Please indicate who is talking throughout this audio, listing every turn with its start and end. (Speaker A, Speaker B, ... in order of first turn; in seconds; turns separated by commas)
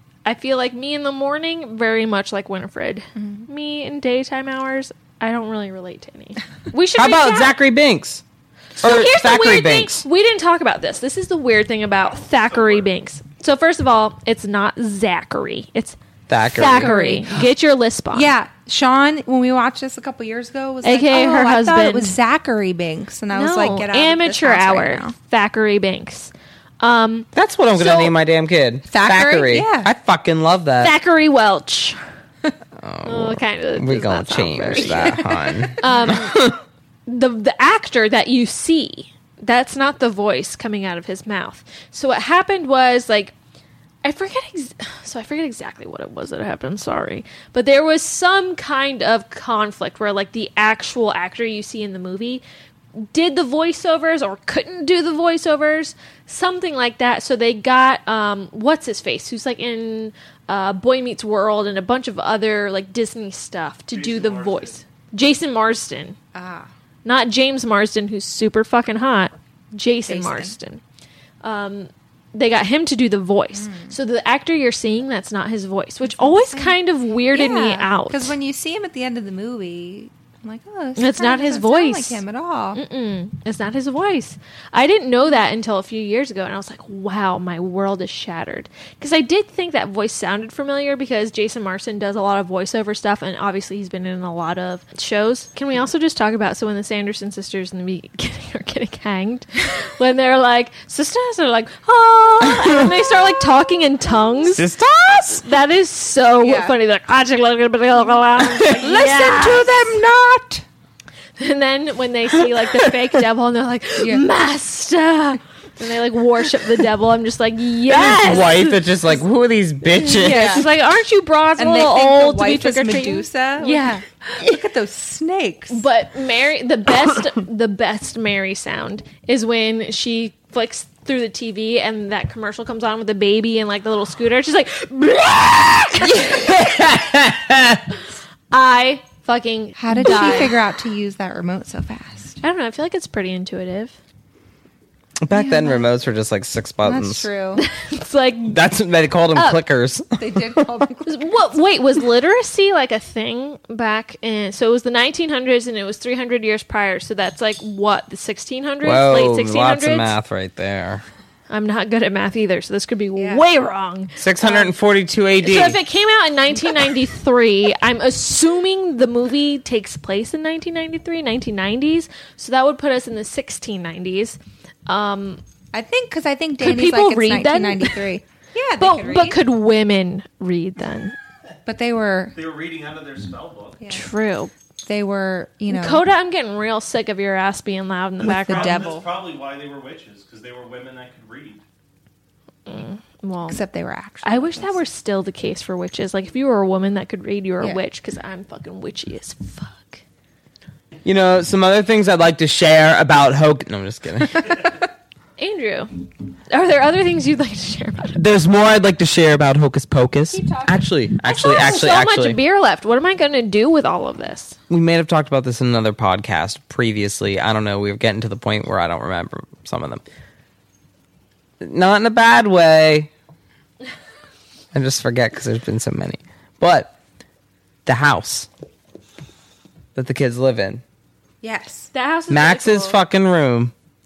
Speaker A: 0.2-7.6, Speaker B: 3.2-3.5, Speaker C: 7.0-8.2, Speaker C: 8.8-10.0, Speaker A: 8.8-18.3, Speaker D: 12.1-12.9, Speaker C: 16.3-17.2, Speaker B: 16.6-17.4, Speaker B: 18.1-25.1, Speaker A: 20.8-22.2, Speaker A: 23.3-28.1, Speaker C: 27.4-30.9, Speaker B: 28.9-29.9, Speaker A: 30.8-32.0, Speaker C: 32.8-36.6, Speaker A: 33.0-35.2, Speaker B: 34.8-36.4, Speaker A: 35.8-36.4, Speaker A: 37.1-43.3, Speaker A: 44.0-52.4, Speaker A: 53.0-66.2, Speaker D: 63.9-64.8, Speaker B: 66.3-66.7, Speaker A: 67.0-70.8, Speaker B: 70.1-70.6, Speaker A: 71.4-78.3, Speaker B: 73.5-74.0, Speaker B: 76.0-82.8, Speaker A: 81.0-82.2, Speaker A: 82.8-104.7, Speaker C: 102.5-102.8, Speaker C: 104.5-105.5, Speaker A: 105.3-110.0, Speaker B: 106.4-106.8, Speaker C: 108.4-108.8, Speaker B: 108.7-110.7, Speaker A: 111.4-118.8, Speaker B: 114.0-114.2, Speaker C: 117.9-120.7, Speaker A: 120.0-124.0, Speaker B: 120.1-120.7, Speaker B: 121.6-125.8, Speaker A: 125.7-136.3, Speaker C: 136.0-137.8, Speaker A: 138.5-140.6, Speaker B: 139.8-142.4, Speaker A: 142.4-143.9, Speaker C: 145.2-147.3, Speaker B: 145.3-145.9, Speaker B: 146.8-147.7, Speaker A: 147.6-148.6, Speaker C: 148.5-150.6, Speaker A: 149.3-149.6, Speaker B: 150.2-151.3, Speaker A: 151.1-160.2, Speaker C: 158.8-161.0, Speaker A: 161.5-164.7, Speaker B: 163.2-163.4, Speaker C: 164.2-165.8, Speaker A: 165.4-175.4, Speaker B: 175.7-179.4, Speaker A: 176.6-178.1, Speaker A: 178.8-181.2, Speaker B: 181.7-182.4, Speaker D: 182.4-183.8, Speaker B: 183.8-184.1, Speaker A: 183.9-184.5, Speaker B: 184.8-186.1, Speaker A: 185.7-188.9, Speaker D: 188.2-191.6, Speaker B: 188.2-189.1, Speaker A: 192.7-193.6, Speaker B: 193.5-194.8, Speaker A: 194.2-200.0, Speaker C: 201.0-204.6, Speaker A: 205.4-205.9, Speaker A: 206.5-208.2, Speaker C: 208.2-212.4, Speaker A: 210.3-214.6, Speaker C: 214.7-220.0, Speaker C: 221.6-223.1, Speaker C: 224.7-226.9, Speaker C: 227.9-228.5, Speaker C: 229.9-230.8, Speaker B: 231.4-231.9, Speaker A: 231.9-233.0, Speaker C: 232.3-233.7